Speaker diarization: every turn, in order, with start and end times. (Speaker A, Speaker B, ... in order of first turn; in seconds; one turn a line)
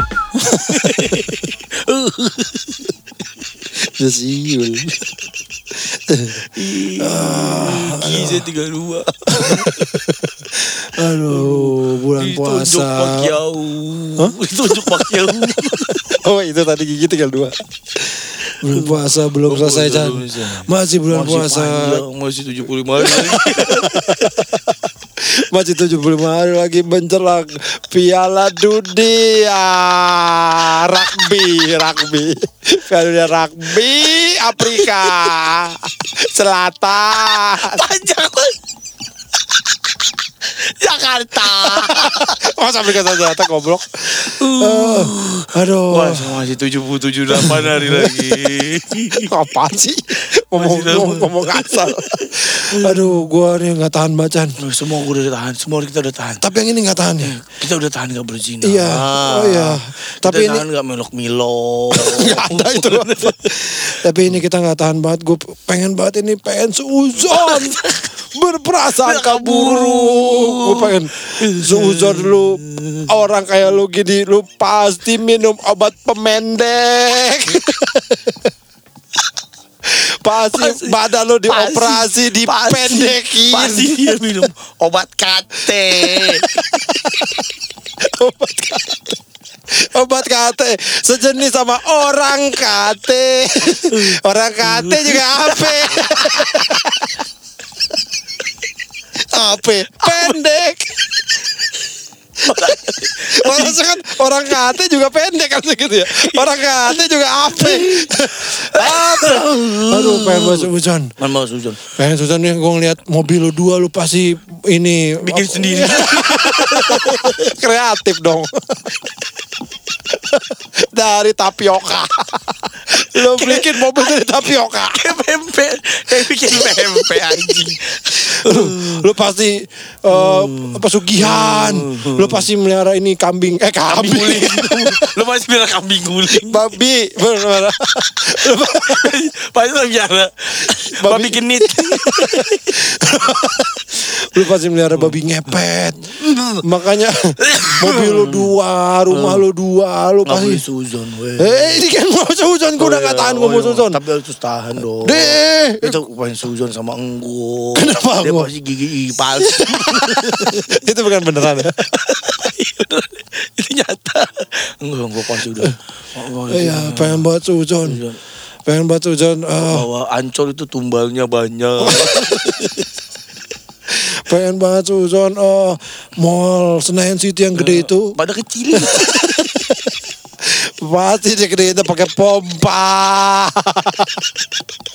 Speaker A: 0.3-1.4
Speaker B: 0.6-2.9
Speaker A: 3.7-5.1
Speaker A: 5.7-6.4
Speaker B: 6.4-9.9
Speaker A: 7.0-8.5
Speaker A: 9.3-13.3
Speaker B: 11.2-16.0
Speaker A: 14.2-22.0
Speaker B: 18.6-24.3
Speaker A: 23.0-37.8
Speaker B: 34.6-35.4
Speaker B: 37.6-38.5
Speaker B: 40.4-42.4
Speaker A: 41.4-46.4
Speaker B: 44.1-49.3
Speaker A: 47.3-48.6
Speaker A: 49.1-54.6
Speaker B: 50.5-53.2
Speaker B: 54.6-56.5
Speaker A: 56.4-57.4
Speaker B: 57.2-64.4
Speaker A: 58.6-60.6
Speaker A: 61.9-78.5
Speaker B: 67.3-68.1
Speaker B: 68.9-73.1
Speaker A: 79.8-84.4
Speaker B: 80.4-86.6
Speaker A: 85.7-87.4
Speaker A: 88.0-89.2
Speaker A: 89.7-97.2
Speaker B: 93.9-96.5
Speaker A: 99.2-101.0
Speaker B: 100.0-100.3
Speaker B: 102.4-103.9
Speaker A: 102.4-111.1
Speaker B: 106.1-111.9
Speaker A: 112.0-118.9
Speaker B: 115.2-117.5
Speaker A: 120.1-125.2
Speaker B: 123.1-129.1
Speaker A: 126.3-127.5
Speaker A: 128.1-135.2
Speaker B: 130.1-132.5
Speaker B: 133.9-136.7
Speaker A: 136.4-139.1
Speaker B: 138.4-143.5
Speaker A: 140.6-150.6
Speaker B: 144.9-146.9
Speaker B: 147.4-148.5
Speaker B: 149.1-149.4
Speaker B: 150.2-151.8
Speaker A: 151.4-154.0
Speaker B: 152.8-160.8
Speaker A: 155.0-156.0
Speaker A: 157.7-158.5
Speaker A: 159.4-161.9
Speaker B: 161.8-167.3
Speaker A: 166.4-168.0
Speaker B: 167.8-168.2
Speaker A: 168.7-169.9
Speaker B: 169.6-172.9
Speaker A: 171.8-172.4
Speaker A: 173.9-178.2
Speaker B: 177.6-179.3
Speaker A: 178.7-179.9
Speaker A: 180.4-184.3